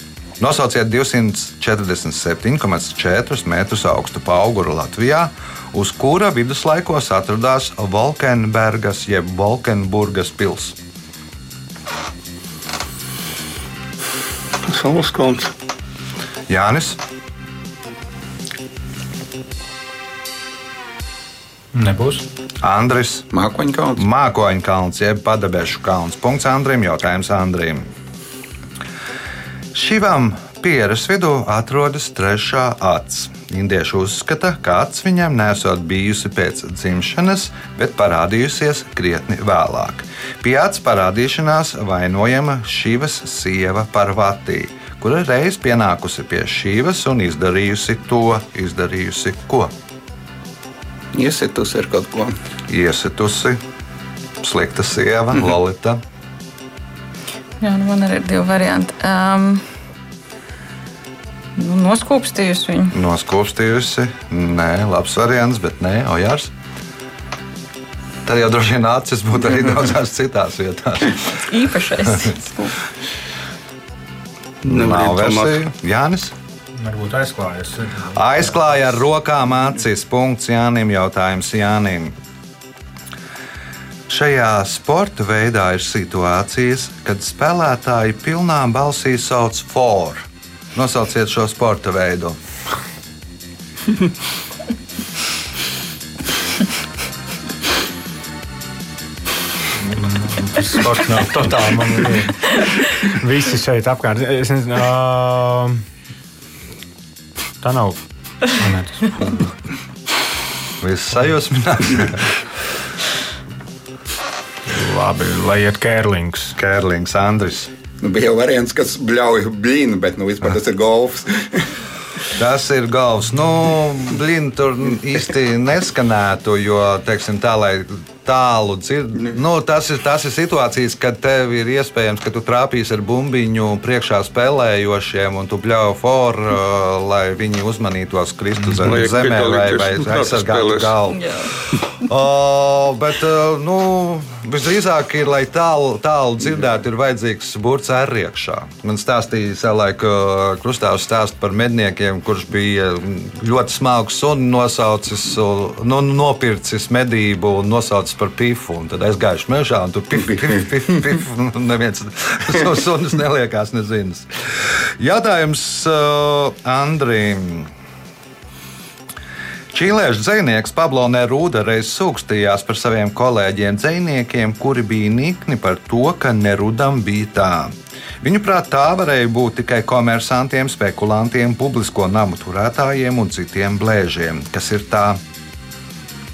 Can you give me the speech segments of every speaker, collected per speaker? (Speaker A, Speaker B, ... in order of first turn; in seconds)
Speaker A: 0.4-10.8, 16.5-17.0, 22.6-23.3, 24.0-27.9, 29.7-49.7, 52.7-53.6, 54.4-56.0, 62.9-66.5, 68.2-71.5, 74.7-76.3, 78.1-82.1, 84.1-92.4, 110.8-112.3, 116.5-117.7, 122.3-141.2, 141.8-167.7, 169.7-185.2
Speaker B: 14.7-15.5, 74.6-75.6, 138.8-140.9
Speaker C: 21.7-22.2, 76.8-78.6, 99.8-105.8, 107.6-109.5, 114.7-116.5
Speaker D: 23.3-24.0, 51.1-52.4, 118.0-121.7
Speaker E: 57.6-59.6, 61.5-62.9, 71.4-72.7, 141.1-141.5